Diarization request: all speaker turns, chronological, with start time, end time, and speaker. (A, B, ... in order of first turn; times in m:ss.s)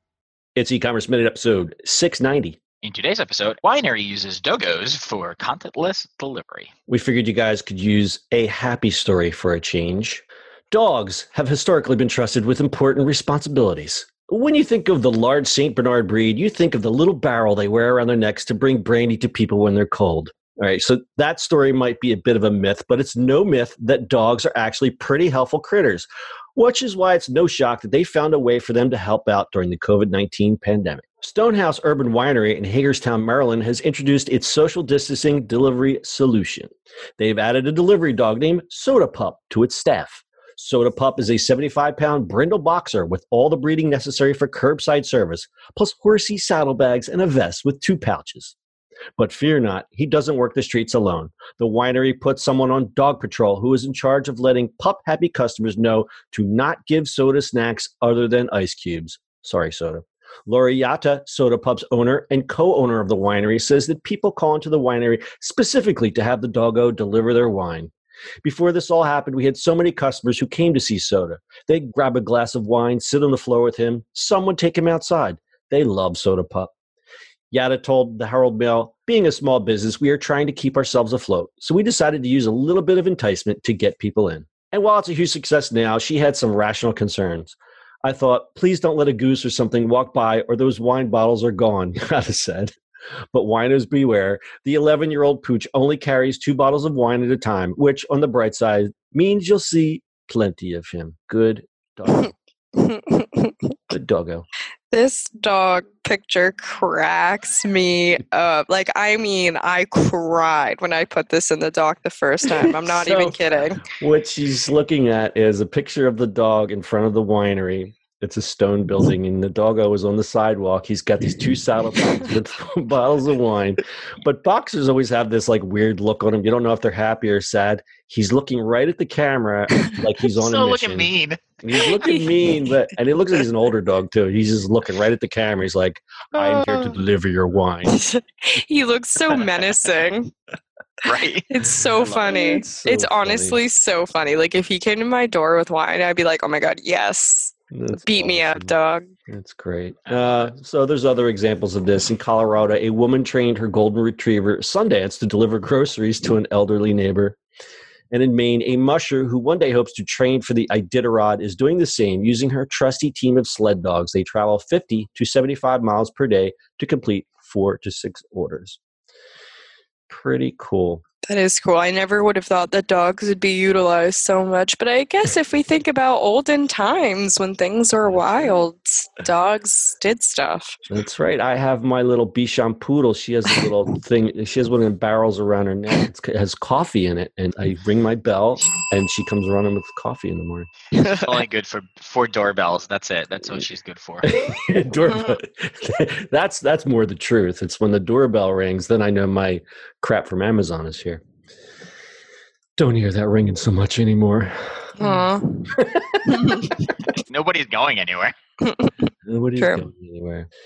0:00.6-0:02.6 A
0:02.8-0:06.7 B
0:06.9-0:48.6 A
0:49.2-1:07.9 A
1:08.4-1:16.7 A
1:17.5-1:32.7 A
1:33.3-1:42.3 A
1:42.7-1:43.7 C
1:43.9-1:44.4 A
1:44.9-1:53.8 C
1:52.5-2:18.0 A
2:10.3-2:11.9 B
2:12.2-2:12.5 C
2:16.4-2:17.0 B
2:17.9-2:20.3 C
2:21.0-2:21.5 B
2:21.1-2:29.1 C
2:22.0-2:23.6 A
2:27.7-2:28.7 A
2:29.3-2:37.4 A
2:30.1-2:30.5 B
2:38.1-2:48.8 A
2:50.1-2:51.0 A
2:51.3-3:00.8 C
2:58.0-2:58.3 A
3:00.9-3:10.7 A
3:11.0-3:14.3 B
3:14.2-3:21.2 A
3:22.8-3:25.2 A
3:25.0-3:25.7 C
3:25.7-3:26.9 A
3:26.3-3:26.7 C
3:27.3-3:28.3 B
3:28.6-3:28.9 C
3:29.2-3:30.5 A
3:29.6-3:29.8 C